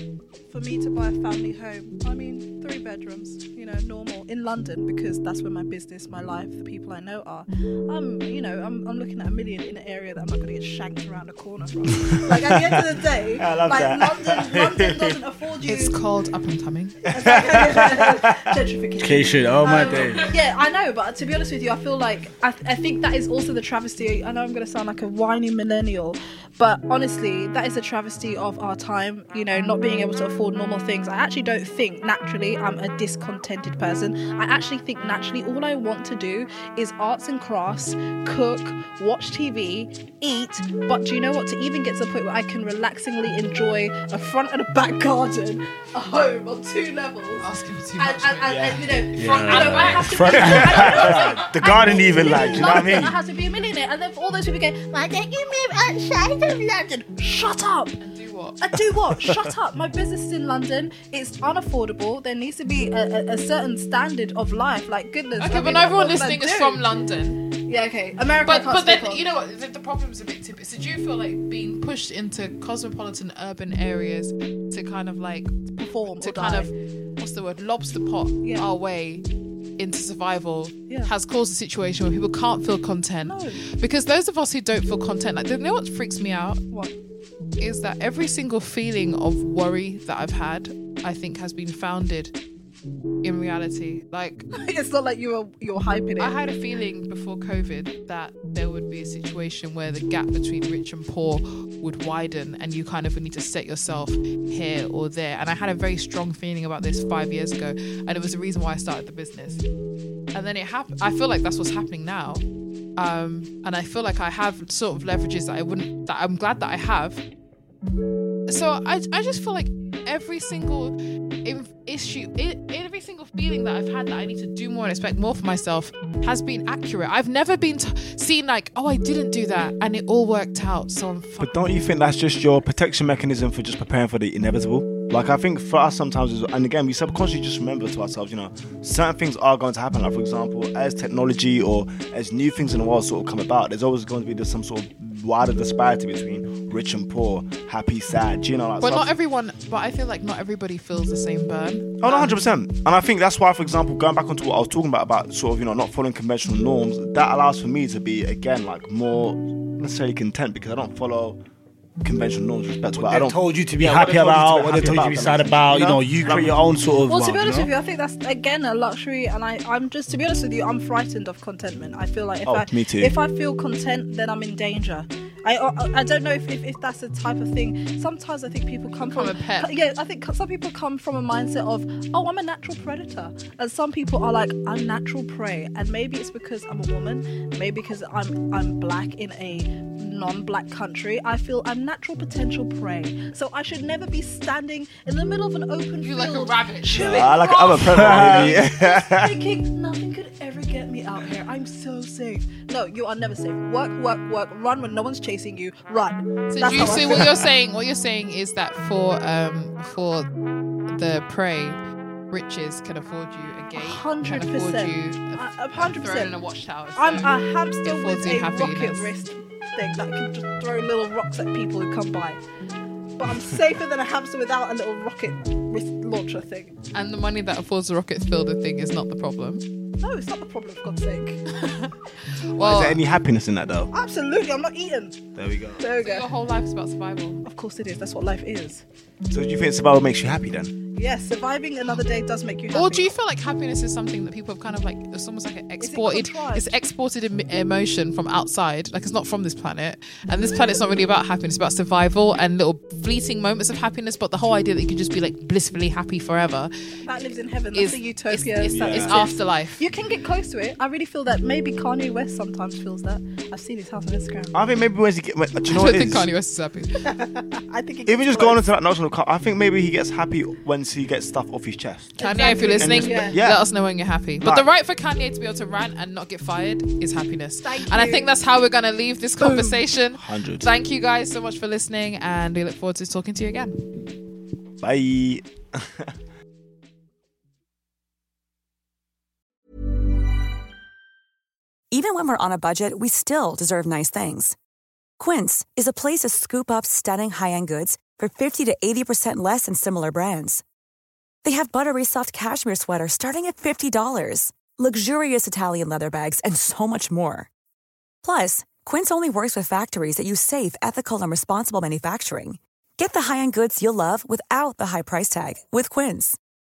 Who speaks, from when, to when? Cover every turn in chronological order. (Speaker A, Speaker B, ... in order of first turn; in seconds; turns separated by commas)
Speaker A: 0.5-16.0, Speaker B: 13.3-14.5, Speaker C: 15.7-16.9, Speaker B: 17.1-18.6, Speaker A: 17.1-47.5, Speaker D: 19.0-20.3, Speaker C: 47.4-51.3, Speaker A: 48.0-58.0, Speaker D: 49.2-53.1, Speaker B: 50.8-53.2, Speaker C: 58.0-58.6, Speaker A: 58.6-66.9, Speaker C: 65.4-67.4, Speaker A: 67.6-69.2, Speaker C: 68.5-79.2, Speaker A: 75.7-76.7, Speaker C: 79.8-86.6, Speaker A: 83.2-83.6, Speaker C: 87.6-92.4, Speaker C: 93.2-94.5, Speaker A: 94.6-96.4, Speaker C: 96.2-109.6, Speaker C: 110.3-112.4, Speaker C: 113.0-117.2, Speaker C: 118.5-131.6, Speaker B: 131.4-149.1, Speaker C: 148.8-152.4, Speaker B: 152.0-161.4, Speaker B: 162.0-166.7, Speaker D: 162.9-167.7, Speaker A: 167.1-207.4, Speaker B: 172.5-173.1, Speaker C: 179.0-179.7, Speaker C: 196.0-197.2, Speaker B: 196.9-199.4, Speaker D: 198.0-198.5, Speaker C: 206.5-210.3, Speaker C: 210.9-211.8, Speaker C: 212.3-219.1, Speaker A: 213.8-216.3, Speaker A: 217.0-222.4, Speaker A: 223.2-226.7, Speaker C: 226.9-229.7, Speaker A: 230.0-231.4, Speaker C: 231.6-232.0, Speaker C: 232.6-233.0, Speaker B: 232.6-233.9, Speaker A: 233.9-236.3, Speaker D: 235.4-235.8, Speaker C: 236.0-237.4, Speaker A: 237.4-238.8, Speaker B: 239.3-240.8, Speaker A: 240.9-243.1, Speaker C: 242.7-259.8, Speaker A: 245.8-246.7, Speaker A: 257.1-264.6, Speaker B: 258.7-259.2, Speaker B: 264.5-266.3, Speaker C: 265.7-267.0, Speaker A: 267.1-268.6, Speaker B: 268.1-272.2, Speaker A: 272.2-273.4, Speaker C: 272.2-283.8, Speaker B: 272.8-273.6, Speaker A: 277.6-278.3, Speaker A: 279.4-279.8, Speaker B: 280.2-280.7, Speaker B: 284.8-286.1, Speaker E: 291.9-294.6, Speaker E: 295.2-300.6, Speaker E: 301.4-307.5, Speaker E: 308.2-316.4